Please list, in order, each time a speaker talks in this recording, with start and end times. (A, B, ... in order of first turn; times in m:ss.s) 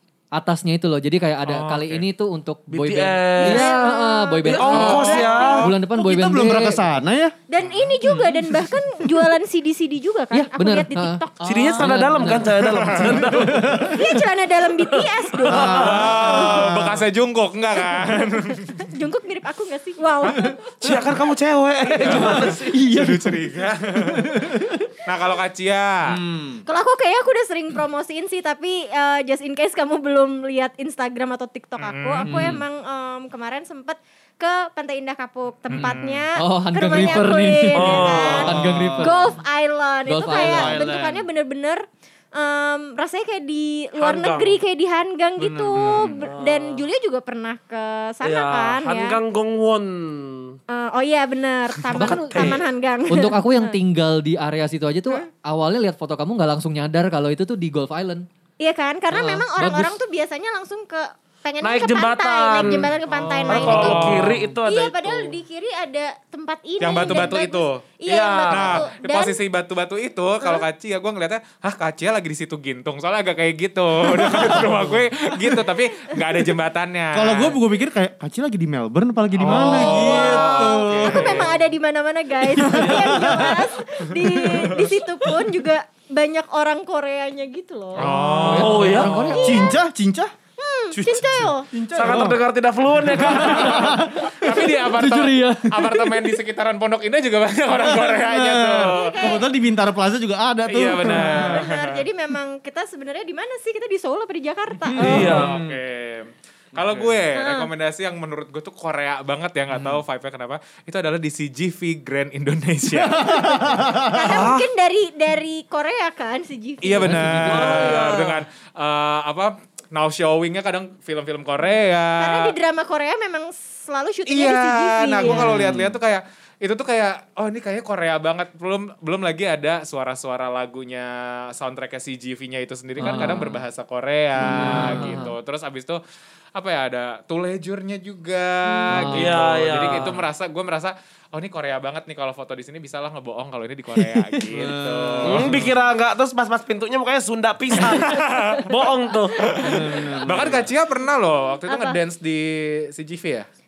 0:00.3-0:06.8 A
0:01.4-0:02.1 B
0:02.7-0:03.8 C
0:03.4-0:05.7 D
0:04.4-0:05.6 C
0:04.7-0:05.7 B
0:05.9-0:07.3 E
0:07.5-0:11.5 D
0:08.1-0:08.4 A
0:10.3-0:12.8 A
0:11.4-0:13.9 C
0:11.4-0:11.9 E
0:12.8-0:13.2 B
0:13.2-0:14.0 E
0:13.9-0:16.4 D
0:14.9-0:16.1 C
0:15.4-0:17.0 E
0:15.8-0:18.7 B
0:17.9-0:20.6 D
0:20.3-0:20.6 E
0:20.8-0:22.8 C
0:21.9-0:24.4 B
0:22.1-0:24.8 E
0:25.0-0:26.2 B
0:26.1-0:26.6 E
0:26.6-0:49.2 D
0:31.8-0:32.6 B
0:32.2-0:32.6 A
0:35.7-0:39.3 A
0:35.7-0:36.2 B
0:37.7-0:38.5 C
0:38.2-0:39.2 E
0:40.0-0:40.8 A
0:40.3-0:41.2 E
0:44.0-0:44.6 C
0:45.4-0:46.1 E
0:45.8-0:46.2 B
0:46.2-0:46.8 C
0:48.2-0:50.6 C
0:50.7-0:53.8 D
0:51.9-0:58.2 A
0:52.0-0:52.6 C
0:58.6-1:09.4 D
0:59.1-1:00.0 A
1:01.6-1:02.9 C
1:02.7-1:04.5 B
1:03.5-1:05.4 C
1:03.6-1:04.5 E
1:06.8-1:07.9 B
1:08.1-1:08.9 C
1:08.5-1:17.6 B
1:14.1-1:15.0 E
1:17.1-1:21.5 E
1:19.3-1:21.6 B
1:19.6-1:28.1 D
1:22.4-1:24.8 E
1:27.9-1:29.7 B
1:28.0-1:30.3 E
1:28.5-1:29.4 A
1:28.6-1:29.1 C
1:29.1-1:29.8 D
1:30.6-1:31.6 D
1:30.9-1:34.0 C
1:31.0-1:32.4 E
1:33.0-1:39.3 B
1:33.1-1:34.6 E
1:34.2-1:35.9 A
1:37.7-1:41.7 E
1:38.9-1:39.4 D
1:40.7-1:41.8 B
1:41.0-1:45.4 D
1:44.9-1:45.8 E
1:45.0-1:53.6 B
1:45.0-1:45.5 C
1:46.8-1:47.2 E
1:47.3-1:47.7 D
1:52.9-1:54.5 E
1:54.1-1:57.2 D
1:54.3-1:54.6 B
1:56.8-2:02.5 B
1:57.0-1:58.1 A
1:57.5-1:58.4 C
2:02.2-2:05.4 D
2:04.3-2:16.0 B
2:05.3-2:05.9 A
2:05.3-2:05.9 E
2:13.0-2:13.6 A
2:14.4-2:15.1 E
2:14.4-2:15.3 A
2:16.6-2:25.7 B
2:18.7-2:19.1 D
2:18.9-2:19.4 A
2:19.1-2:20.2 C
2:23.9-2:24.5 A
2:24.5-2:25.7 E
2:25.2-2:29.5 C
2:27.8-2:28.7 B
2:28.4-2:29.8 D
2:29.4-2:33.4 B
2:29.5-2:30.7 E
2:31.7-2:32.0 D